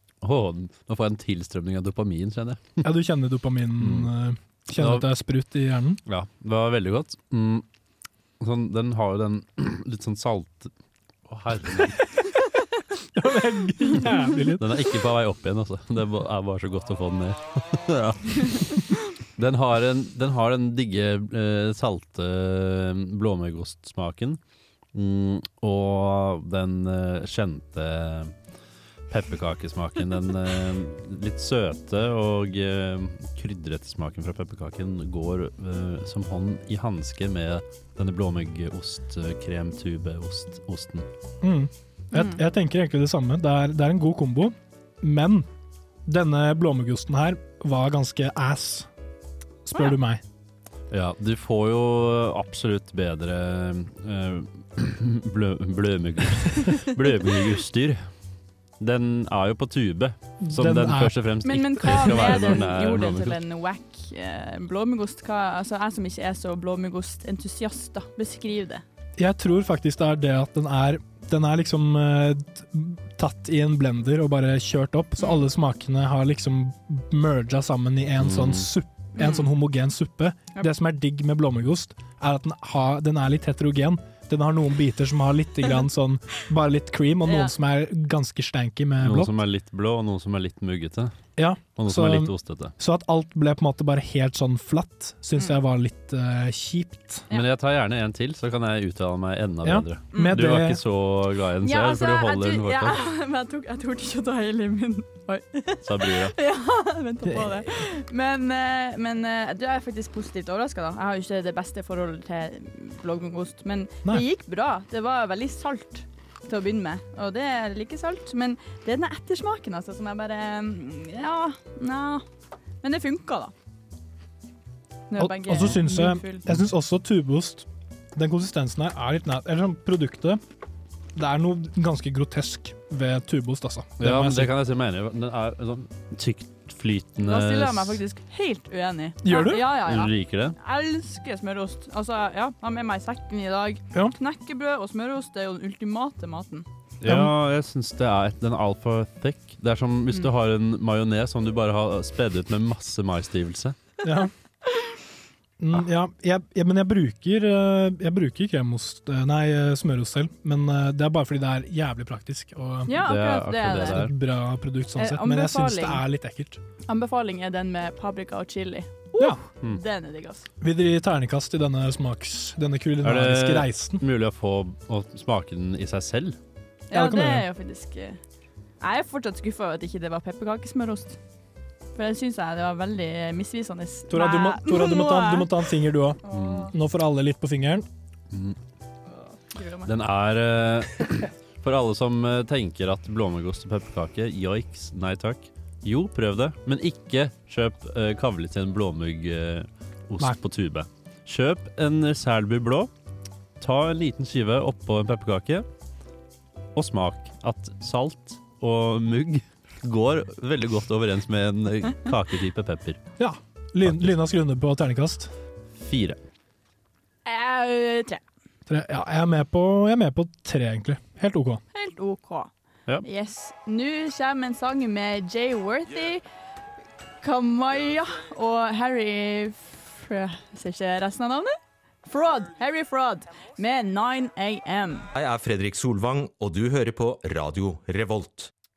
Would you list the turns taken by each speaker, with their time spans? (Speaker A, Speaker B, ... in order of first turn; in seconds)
Speaker A: 0.2-2.8, 3.8-4.1, 4.8-5.0, 6.0-7.6, 8.4-10.7, 11.3-12.0, 14.6-24.4, 24.9-28.4, 29.1-41.1, 50.9-58.1, 58.8-63.4, 78.2-78.7, 89.0-91.1, 91.8-92.7, 97.3-103.0, 105.8-106.3, 134.0-138.0, 139.8-140.6, 147.0-153.8, 163.0-164.1, 173.0-176.4, 186.3-186.7, 188.3-188.6, 189.8-202.9, 203.6-205.7, 206.7-213.0, 213.8-214.2, 215.7-216.2
Speaker B: 2.8-6.0, 13.1-14.6, 41.4-45.5, 46.0-48.9, 49.6-50.2, 60.4-61.2, 62.0-62.6, 69.2-89.3, 91.4-97.3, 99.6-100.8, 107.3-107.6, 125.2-130.4, 131.1-134.5, 139.2-139.6, 147.0-147.3, 154.0-154.3, 155.6-163.0, 163.7-166.6, 170.6-174.0, 176.9-177.4, 184.1-187.8, 213.2-215.3, 218.7-221.6
Speaker C: 42.1-42.4, 61.4-68.8, 79.2-79.5, 87.2-87.5, 101.6-122.2, 122.8-123.5, 125.1-126.4, 137.2-146.7, 162.8-164.0, 165.0-166.0, 166.9-170.5, 176.9-178.2, 178.8-181.2, 181.9-185.7, 186.2-186.7, 189.2-189.9, 217.2-218.2, 221.7-222.5, 223.0-226.2, 227.2-235.0
Speaker D: 235.1-238.5